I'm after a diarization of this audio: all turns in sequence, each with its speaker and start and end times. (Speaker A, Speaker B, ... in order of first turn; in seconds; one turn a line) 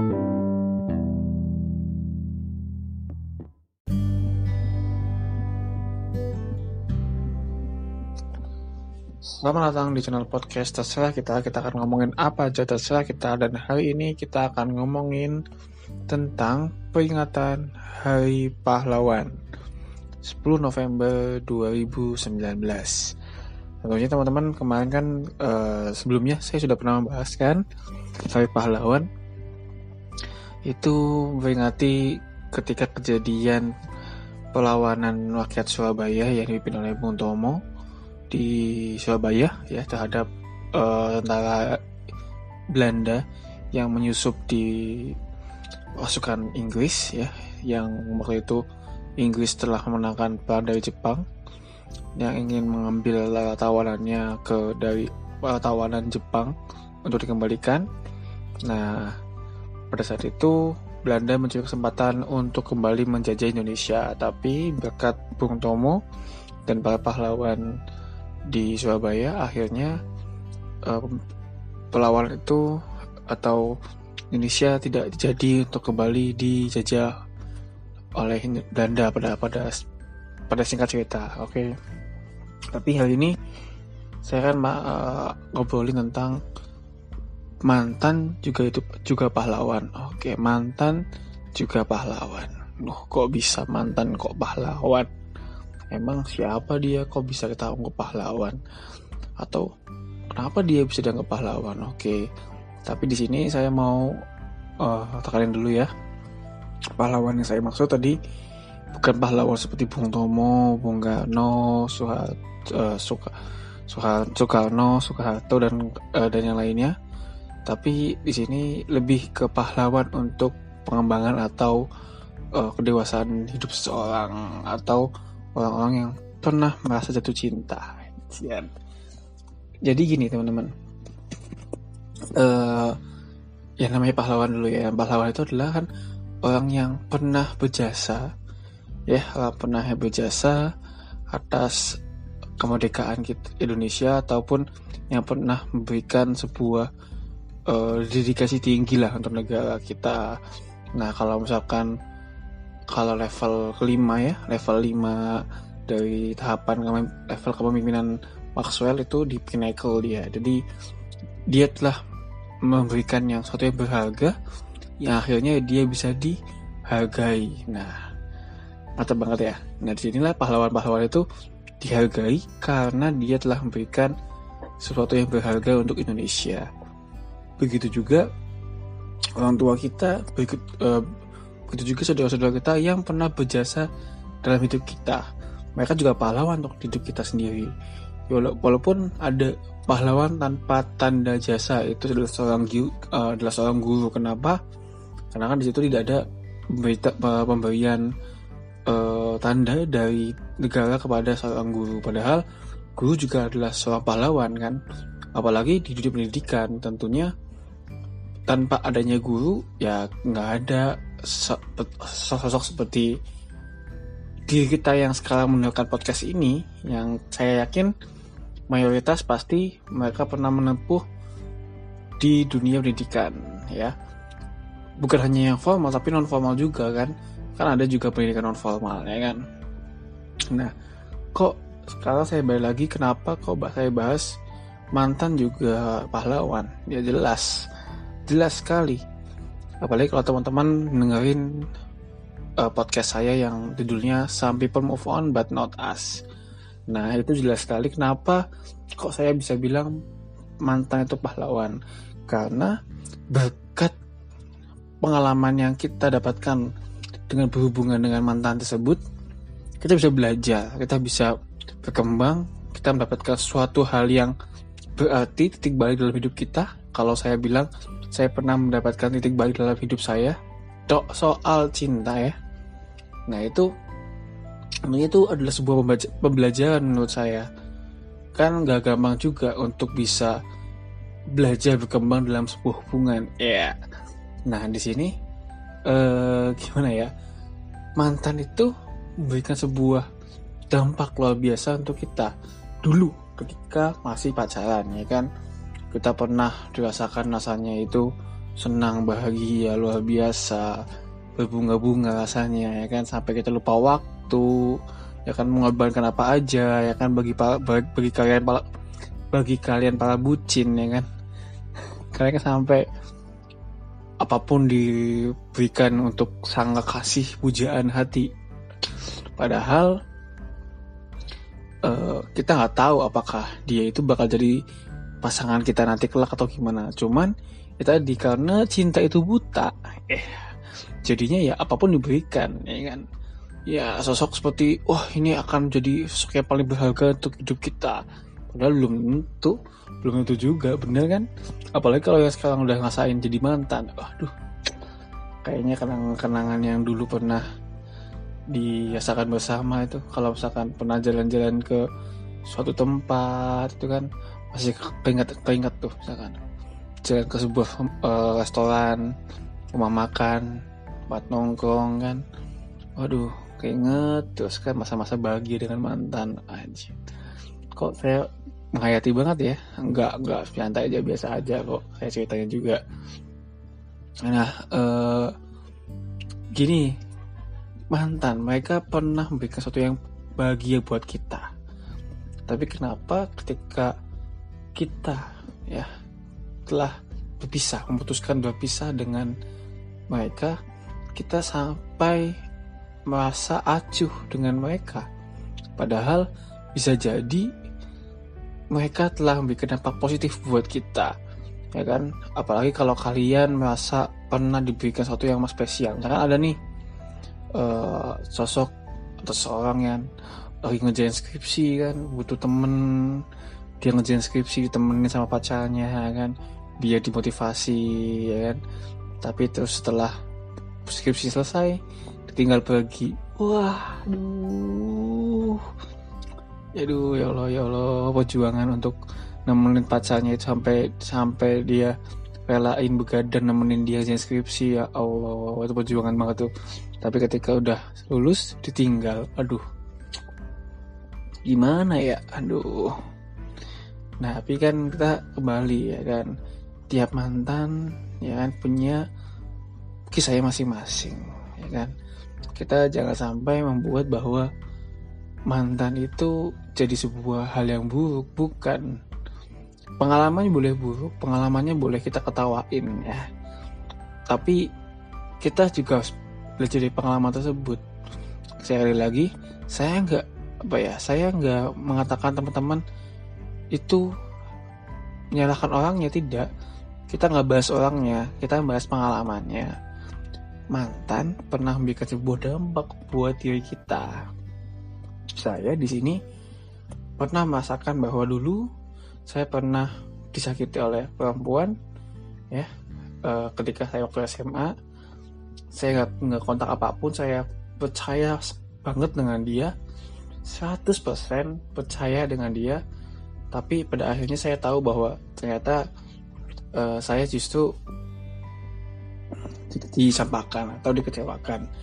Speaker A: 9.2-15.4
Speaker A: 16.1-19.3
Speaker A: 20.2-23.1
Speaker A: 23.8-27.6
Speaker A: 28.2-29.1
Speaker A: 30.7-33.7
Speaker A: 34.5-37.6
Speaker A: 38.3-41.8
Speaker A: 42.7-43.2
Speaker A: 43.7-45.1
Speaker A: 46.0-48.6
Speaker A: 49.2-51.2
Speaker A: 52.2-56.5
Speaker A: 57.0-57.9
Speaker A: 58.6-59.1
Speaker A: 59.9-66.0
Speaker A: 66.7-67.6
Speaker A: 68.5-70.0
Speaker A: 70.8-71.2
Speaker A: 71.9-72.6
Speaker A: 73.3-73.6
Speaker A: 74.3-77.1
Speaker A: 78.2-79.8
Speaker A: 80.5-81.7
Speaker A: 82.7-83.3
Speaker A: 84.2-86.4
Speaker A: 87.7-91.0
Speaker A: 91.5-95.1
Speaker A: 95.9-98.6
Speaker A: 100.3-102.2
Speaker A: 102.8-104.1
Speaker A: 104.8-105.9
Speaker A: 107.0-108.2
Speaker A: 108.9-113.3
Speaker A: 113.9-116.9
Speaker A: 117.7-121.8
Speaker A: 122.5-128.7
Speaker A: 129.8-130.7
Speaker A: 132.3-133.0
Speaker A: 133.8-135.9
Speaker A: 136.4-138.2
Speaker A: 139.1-140.6
Speaker A: 141.3-141.8
Speaker A: 142.6-146.9
Speaker A: 147.7-150.2
Speaker A: 151.0-151.9
Speaker A: 152.9-155.2
Speaker A: 155.9-160.6
Speaker A: 161.5-162.0
Speaker A: 162.7-164.3
Speaker A: 165.0-166.4
Speaker A: 166.9-167.9
Speaker A: 169.0-171.2
Speaker A: 171.8-174.1
Speaker A: 174.8-176.7
Speaker A: 177.6-178.2
Speaker A: 179.4-181.0
Speaker A: 181.7-183.9
Speaker A: 184.4-185.2
Speaker A: 185.8-187.7
Speaker A: 188.3-194.6
Speaker A: 195.3-196.2
Speaker A: 196.8-198.0
Speaker A: 198.9-202.4
Speaker A: 203.0-204.8
Speaker A: 205.3-207.3
Speaker A: 208.5-213.1
Speaker A: 214.5-217.9
Speaker A: 218.7-221.0
Speaker A: 222.2-223.9
Speaker A: 225.0-229.4
Speaker A: 231.3-234.3
Speaker A: 234.9-237.5
Speaker A: 238.3-239.0
Speaker A: 239.8-241.4
Speaker A: 242.6-246.2
Speaker A: 246.9-248.4
Speaker A: 249.0-249.9
Speaker A: 250.6-251.8
Speaker A: 252.3-252.7
Speaker A: 253.3-253.9
Speaker A: 255.0-256.6
Speaker A: 257.3-259.0
Speaker A: 259.8-261.3
Speaker A: 261.8-264.3
Speaker A: 265.0-270.4
Speaker A: 270.9-272.3
Speaker A: 273.3-273.7
Speaker A: 274.9-277.5
Speaker A: 278.4-280.3
Speaker A: 281.4-283.7
Speaker A: 284.5-285.1
Speaker A: 285.9-287.1
Speaker A: 288.0-290.0
Speaker A: 290.7-292.3
Speaker A: 292.8-295.3
Speaker A: 295.9-298.1
Speaker A: 298.6-300.7
Speaker A: 301.4-308.6
Speaker A: 309.3-311.0
Speaker A: 312.1-312.8
Speaker A: 314.2-318.3
Speaker A: 319.4-319.9
Speaker A: 321.9-324.5
Speaker A: 325.2-330.4
Speaker A: 331.1-333.0
Speaker A: 333.7-344.3
Speaker A: 345.4-347.4
Speaker A: 348.5-351.8
Speaker A: 352.5-356.4
Speaker A: 357.0-359.0
Speaker A: 359.7-360.5
Speaker A: 361.1-362.2
Speaker A: 363.0-366.9
Speaker A: 367.8-372.8
Speaker A: 374.2-375.3
Speaker A: 376.6-376.9
Speaker A: 377.9-381.5
Speaker A: 382.5-383.9
Speaker A: 384.8-385.9
Speaker A: 386.7-389.3
Speaker A: 390.1-390.6
Speaker A: 391.1-392.3
Speaker A: 393.1-395.0
Speaker A: 395.8-397.5
Speaker A: 398.7-401.1
Speaker A: 401.7-406.5
Speaker A: 407.6-408.7
Speaker A: 409.2-410.0
Speaker A: 410.6-413.2
Speaker A: 413.8-418.6
Speaker A: 419.2-420.1
Speaker A: 420.9-421.8
Speaker A: 422.3-425.6
Speaker A: 426.8-428.9
Speaker A: 429.5-431.9
Speaker A: 432.5-436.5
Speaker A: 437.0-439.6
Speaker A: 441.4-442.9
Speaker A: 444.2-446.3
Speaker A: 446.9-449.0
Speaker A: 450.1-451.9
Speaker A: 452.6-454.5
Speaker A: 455.5-458.8
Speaker A: 460.0-463.2
Speaker A: 464.3-464.6
Speaker A: 465.4-466.0
Speaker A: 466.6-467.8
Speaker A: 468.6-472.8
Speaker A: 473.7-474.0
Speaker A: 475.3-476.5
Speaker A: 477.1-479.7
Speaker A: 480.7-484.2
Speaker A: 485.4-486.2
Speaker A: 487.2-488.6
Speaker A: 489.3-491.7
Speaker A: 493.2-494.7
Speaker A: 495.8-499.7
Speaker A: 500.5-502.8
Speaker A: 503.5-505.8
Speaker A: 506.8-507.7
Speaker A: 509.7-511.6